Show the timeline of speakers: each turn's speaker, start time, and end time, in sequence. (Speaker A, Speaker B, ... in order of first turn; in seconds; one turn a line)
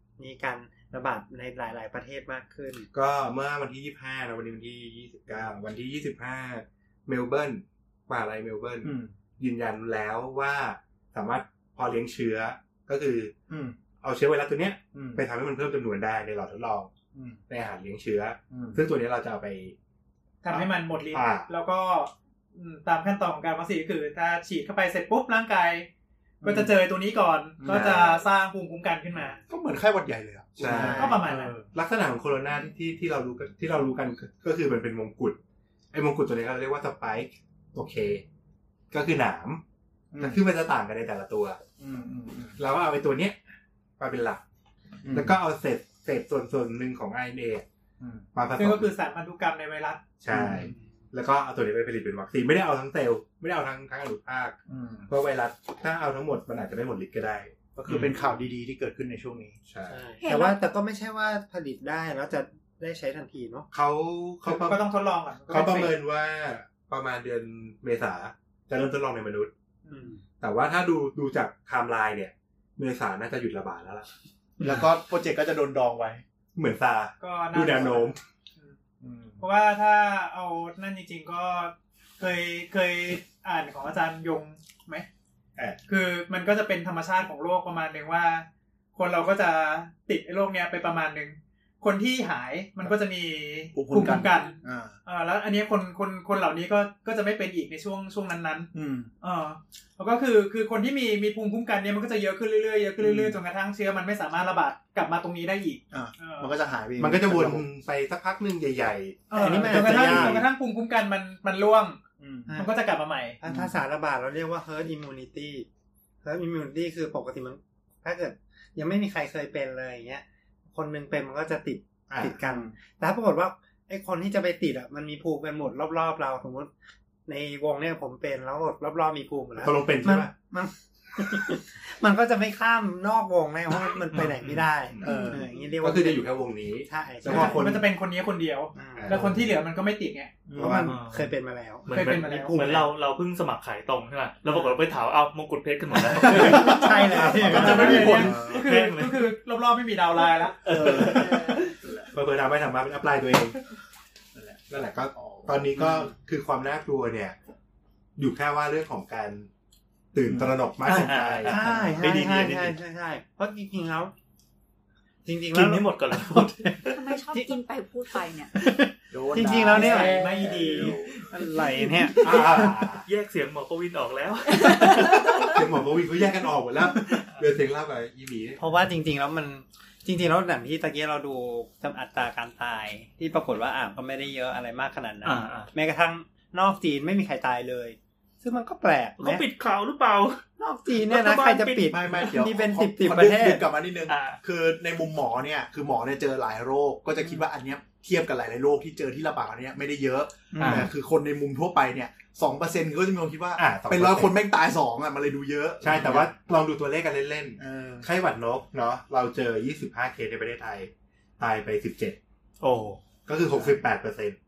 Speaker A: 0.2-2.9
Speaker B: 2.9-13.3
Speaker C: 8.8-9.1
Speaker C: 13.5-13.8
Speaker B: 14.0-16.9
Speaker C: 14.9-15.2
Speaker C: 17.1-17.4
Speaker B: 17.5-19.8
Speaker C: 18.5-18.8
Speaker D: 20.4-25.9
Speaker B: 20.5-21.5
Speaker C: 26.4-26.7
Speaker D: 26.4-29.4
Speaker C: 27.6-28.2
Speaker B: 27.7-28.1
Speaker C: 29.5-31.7
Speaker B: 30.6-31.2
Speaker A: 30.6-31.2
Speaker D: 30.8-31.6
Speaker B: 31.7-35.4
Speaker B: 35.9-38.2
Speaker B: 38.9-39.6
Speaker C: 40.1-40.4
Speaker B: 40.2-41.6
Speaker C: 41.8-42.6
Speaker B: 42.6-43.4
Speaker B: 44.0-44.4
Speaker C: 45.0-45.3
Speaker B: 45.1-47.7
Speaker C: 48.0-48.3
Speaker B: 48.3-48.9
Speaker D: 48.6-50.1
Speaker B: 50.2-54.6
Speaker C: 50.3-50.8
Speaker C: 54.7-55.1
Speaker B: 55.1-57.5
Speaker C: 57.8-59.6
Speaker E: 57.9-58.2
Speaker B: 59.7-60.0
Speaker A: 59.9-63.7
Speaker F: 60.2-60.6
Speaker B: 63.7-64.8
Speaker D: 64.5-66.0
Speaker B: 65.5-69.5
Speaker D: 69.9-70.2
Speaker A: 69.9-70.2
Speaker B: 70.4-74.1
Speaker C: 74.6-76.2
Speaker B: 76.5-78.2
Speaker D: 77.2-78.8
Speaker C: 79.0-79.4
Speaker D: 79.4-85.1
Speaker D: 85.9-98.7
Speaker C: 93.7-95.0
Speaker C: 98.7-99.1
Speaker D: 99.2-106.5
Speaker C: 103.0-103.4
Speaker C: 105.9-107.7
Speaker B: 107.0-110.5
Speaker D: 109.3-112.0
Speaker A: 109.3-110.4
Speaker C: 112.2-112.5
Speaker A: 112.5-112.8
Speaker D: 112.5-113.4
Speaker A: 113.4-115.7
Speaker C: 113.5-113.7
Speaker A: 116.2-126.7
Speaker B: 122.1-122.4
Speaker C: 122.4-122.7
Speaker A: 127.3-136.3
Speaker B: 129.6-130.3
Speaker B: 131.2-131.5
Speaker E: 134.1-134.7
Speaker B: 134.9-135.2
Speaker C: 135.0-135.4
Speaker B: 135.8-137.8
Speaker A: 136.8-137.7
Speaker D: 137.3-140.4
Speaker A: 138.7-139.2
Speaker B: 139.0-139.5
Speaker C: 140.5-140.9
Speaker B: 140.6-141.0
Speaker A: 140.6-142.5
Speaker E: 140.9-141.3
Speaker E: 141.9-149.3
Speaker D: 141.9-142.8
Speaker B: 142.5-142.8
Speaker A: 146.1-148.3
Speaker B: 146.3-148.7
Speaker D: 147.4-150.7
Speaker C: 147.5-147.8
Speaker E: 150.6-151.7
Speaker C: 150.7-152.1
Speaker A: 151.2-151.6
Speaker B: 152.1-153.6
Speaker C: 154.3-156.1
Speaker B: 154.7-157.4
Speaker B: 158.2-159.5
Speaker B: 160.1-162.6
Speaker C: 160.2-160.6
Speaker E: 160.8-162.7
Speaker A: 161.5-164.1
Speaker A: 165.2-167.6
Speaker E: 165.5-167.1
Speaker F: 166.9-168.5
Speaker A: 168.6-172.8
Speaker C: 169.1-170.3
Speaker B: 169.4-169.8
Speaker D: 169.7-172.2
Speaker B: 170.6-171.1
Speaker B: 172.2-173.1
Speaker E: 173.1-175.1
Speaker F: 174.7-175.6
Speaker B: 175.4-178.6
Speaker A: 178.6-189.4
Speaker E: 185.2-185.7
Speaker E: 189.2-190.4
Speaker A: 190.6-193.6
Speaker E: 191.1-191.9
Speaker C: 191.9-206.3
Speaker E: 194.1-194.4
Speaker E: 200.6-200.9
Speaker B: 200.7-200.9
Speaker B: 203.6-204.4
Speaker B: 205.8-212.2
Speaker C: 207.6-208.1
Speaker E: 212.6-213.0
Speaker B: 213.3-214.4
Speaker C: 213.5-213.8